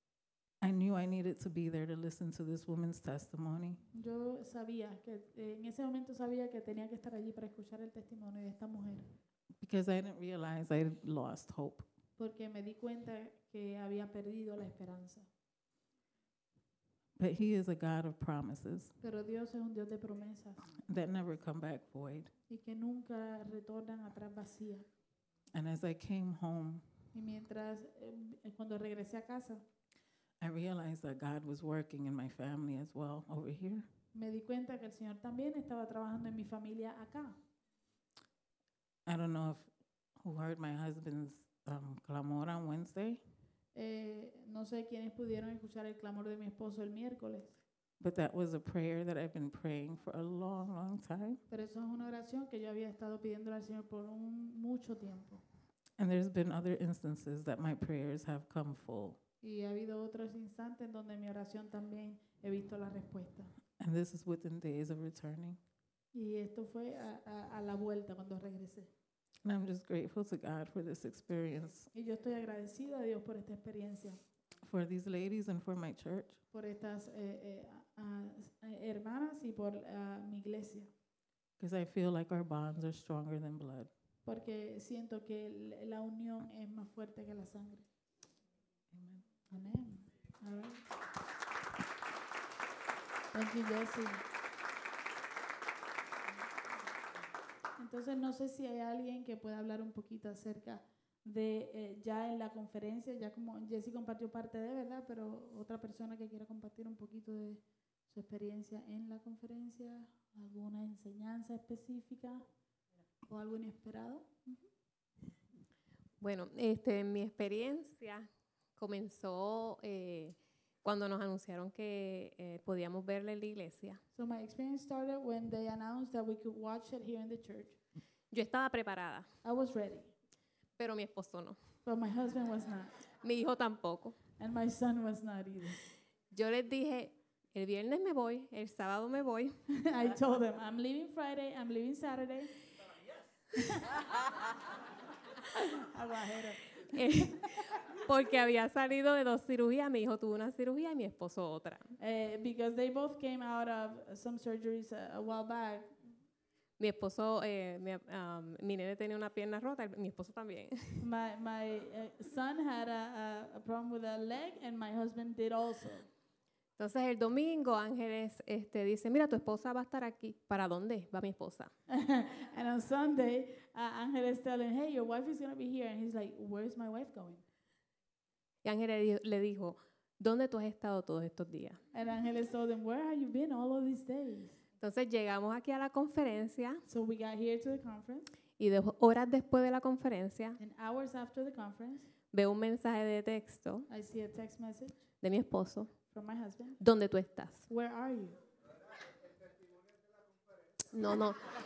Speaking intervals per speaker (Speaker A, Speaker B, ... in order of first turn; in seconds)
Speaker A: 0.6-3.8, 9.6-11.8, 17.2-18.9, 20.8-22.3, 25.5-26.8, 30.4-33.9, 39.0-43.2, 48.0-51.4, 56.0-59.2, 63.8-65.6, 69.4-71.9, 74.6-76.4, 81.6-83.9, 88.9-89.2
Speaker B: 3.9-9.1, 12.2-15.3, 19.0-20.7, 22.5-24.9, 27.1-29.6, 34.1-37.4, 43.7-47.5, 51.5-55.4, 59.4-63.5, 66.1-68.9, 71.9-74.2, 76.5-80.9, 84.2-87.8, 89.5-90.8, 93.3-94.2, 97.8-112.4, 113.3-114.6, 124.1-127.8, 129.4-130.1, 131.8-132.9, 134.4-135.8, 139.7-142.5, 143.6-143.9, 145.7-147.4, 152.0-156.0, 161.0-166.1, 171.9-177.4, 181.9-184.6, 186.8-188.3, 190.6-192.1, 193.9-195.0, 196.1-196.8, 197.7-198.4
Speaker C: 116.2-124.0, 128.3-129.3, 130.8-131.6, 133.2-134.2, 136.3-139.5, 146.9-147.4, 148.1-151.9, 156.8-161.0, 166.8-171.7, 178.6-181.8, 184.8-186.8, 188.6-190.6, 192.3-193.8, 195.2-195.9, 196.8-197.7, 200.9-201.4